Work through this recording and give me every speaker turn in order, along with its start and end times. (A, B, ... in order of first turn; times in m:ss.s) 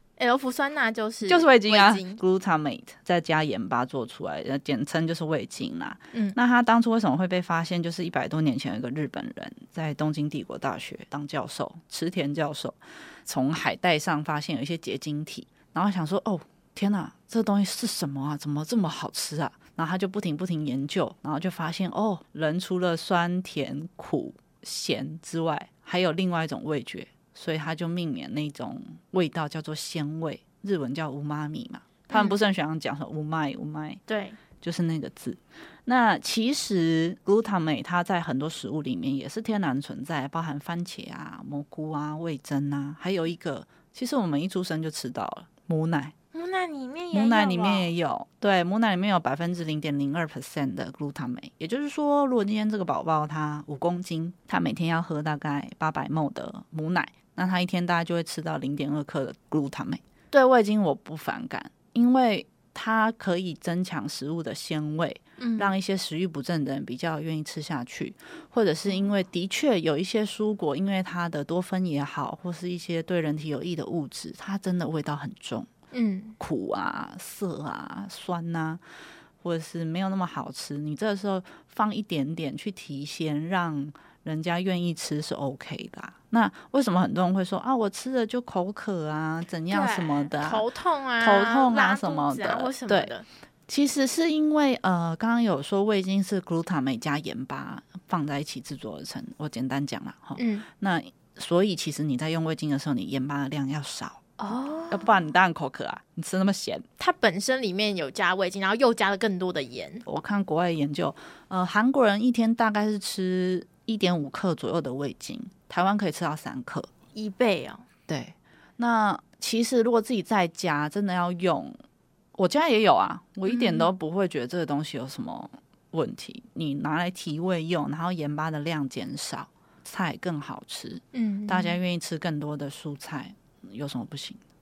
0:00.2-0:02.2 A
0:01.2-0:34.0 B
0:32.1-0:32.4 A
0:34.1-0:34.4 A
0:34.6-0:46.1 B
0:46.3-0:47.9 A
0:47.1-1:15.7 B
1:05.4-1:05.7 A
1:15.9-1:16.4 A
1:16.4-1:18.8 B
1:19.4-1:30.6 B
1:29.7-1:33.2 A
1:31.2-1:33.1 B
1:33.7-1:46.8 B
1:40.4-1:40.6 A
1:44.4-1:45.2 A
1:47.0-1:50.0 A
1:50.0-1:56.9 B
1:57.1-1:57.8 A
1:58.1-2:01.8 B
2:02.3-2:14.4 B
2:03.4-2:03.9 A
2:11.1-2:11.8 A